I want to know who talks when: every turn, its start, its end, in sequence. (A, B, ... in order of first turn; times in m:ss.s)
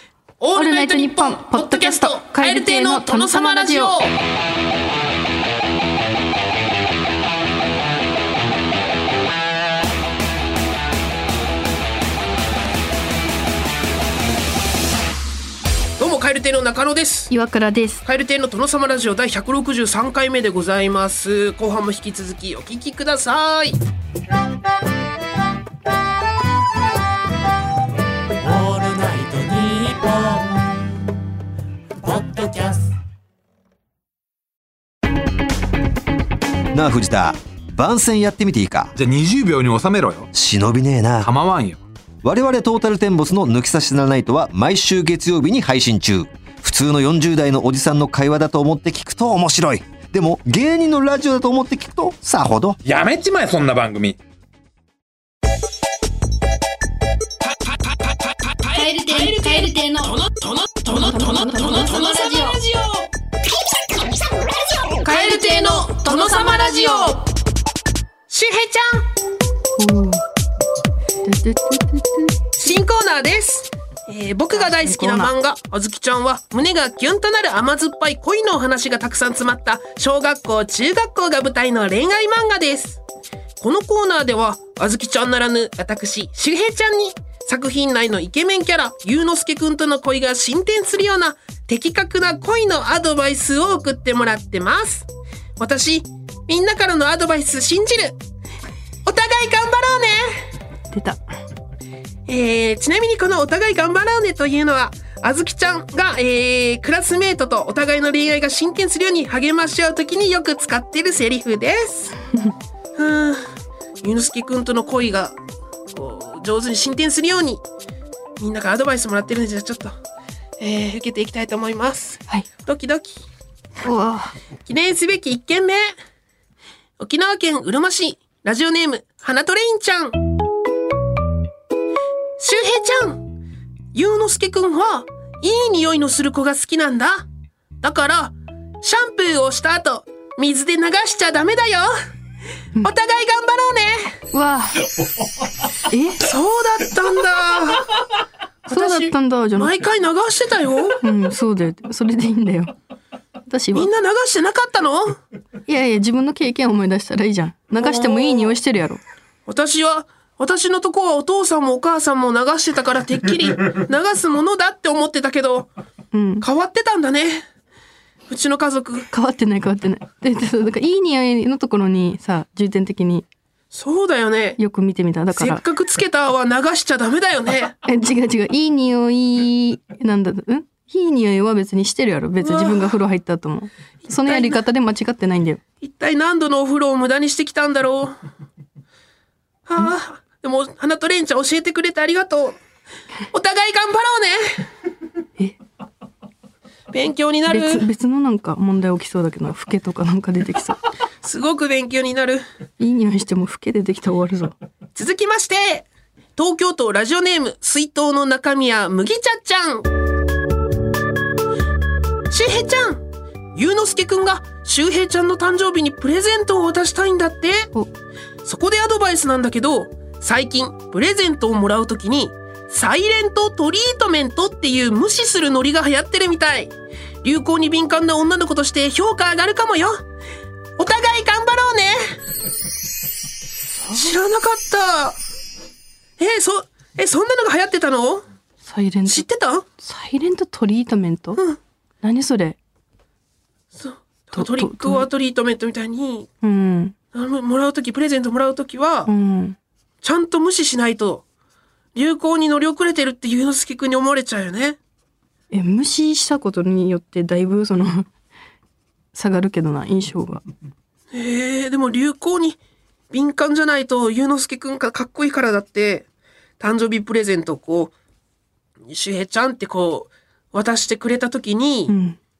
0:00.4-0:04.1 A
0:00.5-0:04.0 B
0:16.0-0:17.3 A
0:17.3-0:18.0 B
0:18.0-0:23.8 A
0:28.4-0:30.6 C
0:32.0-0:32.9 C
0:36.7-0:38.9 D
0:39.0-0:40.3 E
0:40.3-0:41.3 D
0:41.2-0:41.8 E
0:42.2-0:52.8 D
0:52.8-0:54.2 E
0:58.6-1:03.1 A
0:58.7-1:00.1 B
1:00.9-1:02.6 B
1:05.0-1:07.2 A
1:05.1-1:07.1 B
1:08.3-1:09.0 A
1:09.8-1:10.2 B
1:11.2-1:12.4 B
1:12.6-1:23.0 A
1:14.5-1:15.3 B
1:23.6-1:38.2 A
1:39.0-1:40.5 A
1:40.9-1:41.2 B
1:42.3-1:52.2 A
1:53.0-1:53.5 A
1:54.0-1:55.4 A
1:55.9-1:57.6 A
1:58.4-2:00.0 A
2:00.6-2:03.2 A
2:03.8-2:04.3 B
2:04.6-2:05.9 A
2:07.0-2:10.2 A
2:12.4-2:13.2 A
2:13.9-2:17.2 A
2:17.8-2:21.9 A
2:22.8-2:24.2 A
2:24.3-2:24.9 B
2:25.8-2:26.2 B
2:26.2-2:28.0 A
2:28.7-2:31.0 A
2:28.7-2:29.7 B
2:31.0-2:32.7 B
2:33.5-2:33.9 B
2:33.7-2:35.2 A
2:35.6-2:39.0 B
2:37.8-2:38.6 A
2:39.5-2:45.7 A
2:46.1-2:46.4 B
2:46.4-2:47.4 A
2:48.3-2:49.1 A
2:49.1-2:53.2 B
2:53.7-2:54.6 A
2:54.6-2:55.6 B
2:55.3-2:57.8 A
2:57.8-3:05.6 B
3:02.4-3:03.0 A
3:04.2-3:04.6 A
3:05.8-3:08.2 A
3:09.6-3:12.6 A
3:13.3-3:14.7 A
3:16.9-3:17.8 A
3:17.5-3:20.8 B
3:21.2-3:22.4 A
3:22.8-3:24.6 B
3:25.0-3:29.9 A
3:32.3-3:37.7 A
3:38.4-3:50.0 A
3:50.8-3:52.2 A
3:53.7-3:54.1 B
3:53.9-3:55.2 A
3:56.2-3:58.2 A
3:58.6-3:59.2 B
3:59.1-3:59.6 A
3:59.8-4:01.4 B
4:02.0-4:02.6 B
4:03.7-4:06.3 A
4:04.3-4:05.1 B
4:06.4-4:06.9 B
4:07.1-4:09.1 A
4:09.0-4:09.6 B
4:10.0-4:11.2 A
4:11.9-4:14.8 A
4:15.5-4:18.1 B
4:19.1-4:20.4 B
4:21.1-4:22.6 A
4:23.1-4:26.1 A
4:26.6-4:27.9 A
4:28.9-4:31.9 A
4:31.9-4:32.2 B